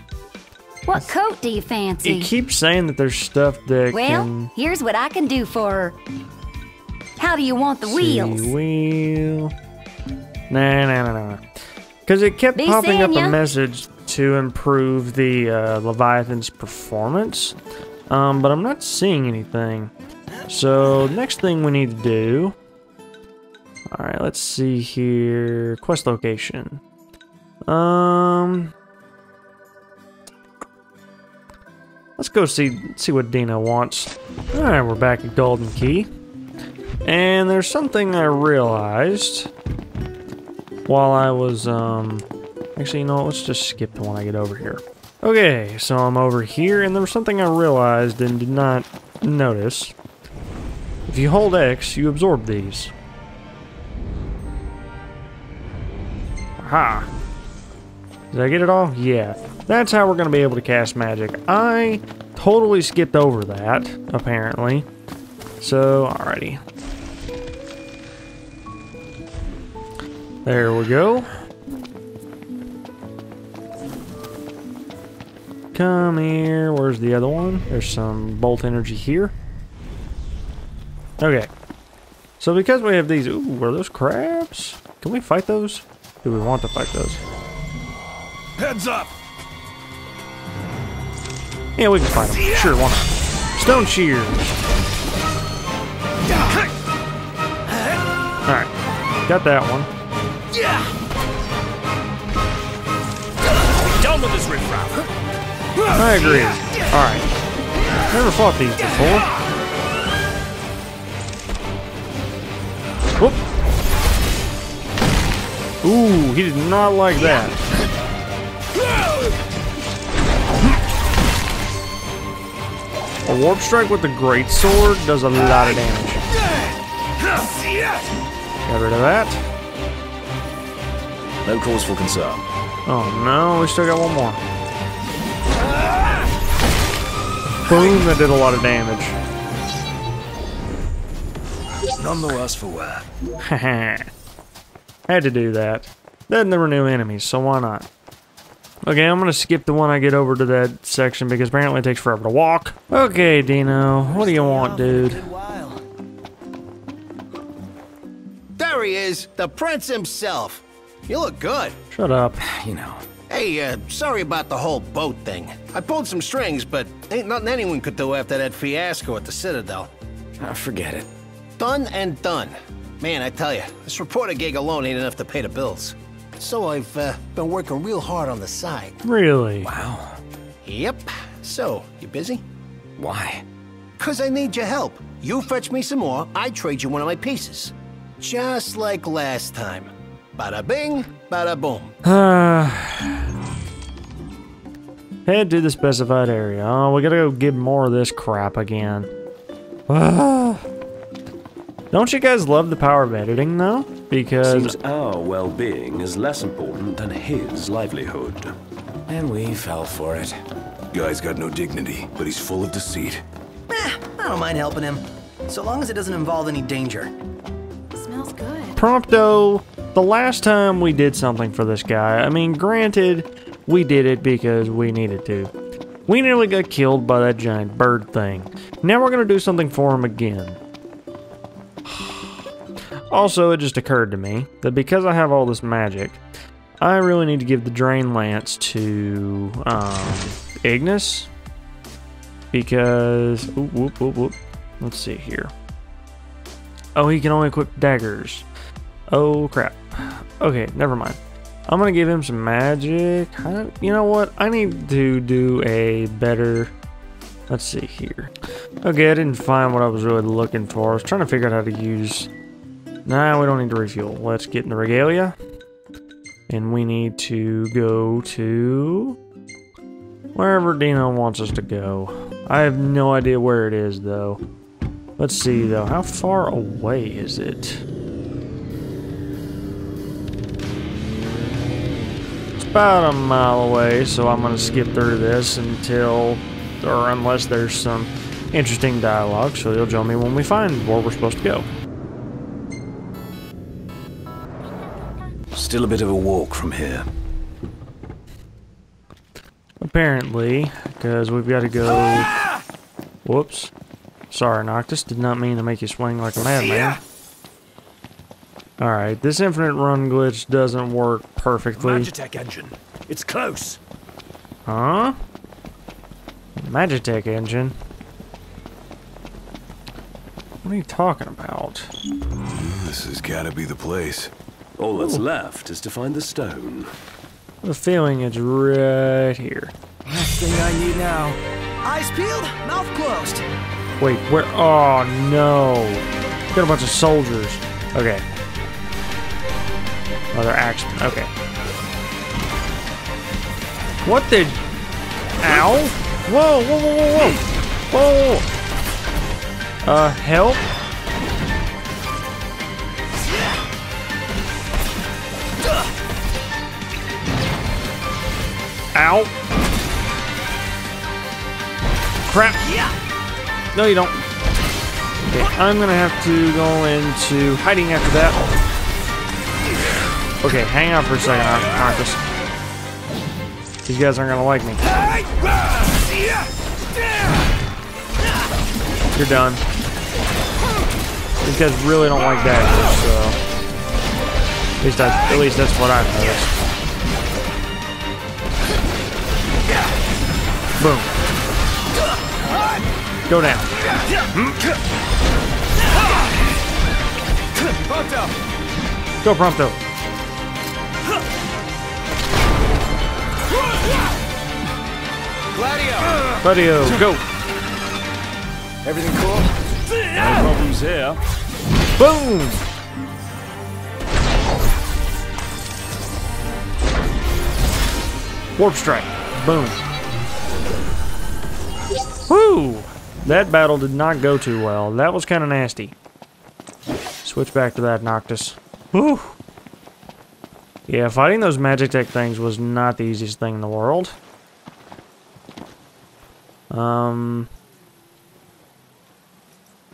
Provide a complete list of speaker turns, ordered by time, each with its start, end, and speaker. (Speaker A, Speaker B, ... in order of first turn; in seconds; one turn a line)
Speaker A: 0.9-2.3
Speaker B: 2.0-4.5
Speaker A: 3.9-5.9
Speaker A: 7.2-8.5
Speaker B: 7.8-9.5
Speaker B: 10.5-11.4
Speaker B: 12.1-17.6
Speaker A: 12.5-13.4
Speaker B: 18.1-19.9
Speaker B: 20.5-22.5
Speaker B: 23.9-26.8
Speaker B: 27.7-28.7
Speaker B: 32.2-36.1
Speaker B: 37.0-39.5
Speaker B: 40.9-42.2
Speaker B: 42.8-49.9
Speaker B: 51.1-52.9
Speaker B: 56.6-57.1
Speaker B: 58.3-64.9
Speaker B: 65.6-66.6
Speaker B: 70.4-71.3
Speaker B: 75.7-79.3
Speaker B: 81.2-81.5
Speaker B: 82.4-87.2
Speaker C: 88.6-89.1
Speaker B: 91.8-94.4
Speaker C: 92.3-92.7
Speaker B: 98.5-98.7
Speaker B: 99.2-99.9
Speaker D: 103.9-105.0
Speaker B: 105.9-107.3
Speaker B: 108.1-109.3
Speaker B: 115.8-117.5
Speaker B: 123.3-126.3
Speaker C: 126.3-128.1
Speaker B: 128.7-129.4
Speaker D: 131.4-132.5
Speaker B: 132.8-134.4
Speaker B: 137.7-139.2
Speaker D: 142.0-143.1
Speaker B: 143.4-144.1
Speaker B: 145.1-147.8
Speaker B: 148.8-155.2
Speaker E: 154.0-155.8
Speaker F: 158.6-161.8
Speaker B: 161.9-162.4
Speaker G: 162.4-163.1
Speaker F: 163.3-169.9
Speaker G: 170.4-171.1
Speaker F: 171.6-179.0
Speaker B: 179.0-179.7
Speaker G: 179.6-180.2
Speaker F: 180.6-182.4
Speaker G: 183.0-183.4
Speaker F: 184.0-191.9
Speaker B: 192.0-193.2
Speaker B: 195.2-199.1
Speaker B: 199.9-200.6
Speaker B: 201.9-204.8
Speaker D: 204.4-208.5
Speaker G: 209.1-210.4
Speaker H: 210.9-213.2
Speaker E: 213.7-217.1
Speaker A: 218.0-218.7
Speaker B: 218.8-225.5
Speaker B: 226.1-230.6
Speaker B: 231.8-232.4
Speaker B: 233.1-236.2
Speaker B: 236.8-241.3
Speaker B: 242.5-245.5
Speaker B: 246.9-248.4
Speaker B: 249.1-256.7
Speaker B: 257.5-258.3
Speaker B: 258.8-262.3
Speaker B: 263.1-265.4
Speaker B: 266.5-269.2
Speaker B: 270.3-274.4
Speaker B: 275.2-277.8
Speaker B: 282.6-291.7
Speaker D: 295.5-297.1
Speaker B: 299.8-302.3
Speaker B: 303.2-303.7
Speaker B: 304.3-307.0
Speaker B: 308.8-312.1
Speaker D: 311.7-313.8
Speaker B: 314.7-315.2
Speaker B: 316.6-317.7
Speaker B: 320.6-321.9
Speaker H: 322.5-324.3
Speaker D: 324.8-326.9
Speaker B: 325.0-325.2
Speaker B: 327.6-329.7
Speaker E: 330.0-333.4
Speaker B: 334.0-338.2
Speaker B: 340.3-341.3
Speaker B: 344.0-344.6
Speaker B: 345.4-347.4
Speaker B: 347.9-348.4
Speaker B: 349.8-350.6
Speaker B: 358.9-359.3
Speaker B: 362.3-362.6
Speaker E: 362.6-362.9
Speaker B: 363.7-364.2
Speaker B: 365.2-368.4
Speaker B: 370.4-372.2
Speaker B: 373.9-374.8
Speaker B: 379.1-379.6
Speaker B: 381.4-383.4
Speaker B: 384.8-386.6
Speaker B: 390.8-391.1
Speaker B: 393.3-393.7
Speaker C: 397.8-398.3
Speaker B: 399.2-399.8
Speaker C: 405.5-405.9
Speaker B: 406.4-407.2
Speaker G: 408.8-409.5
Speaker D: 410.1-411.2
Speaker B: 412.0-412.6
Speaker B: 418.6-419.8
Speaker B: 422.2-425.9
Speaker B: 427.2-429.4
Speaker B: 430.9-434.1
Speaker B: 436.7-437.5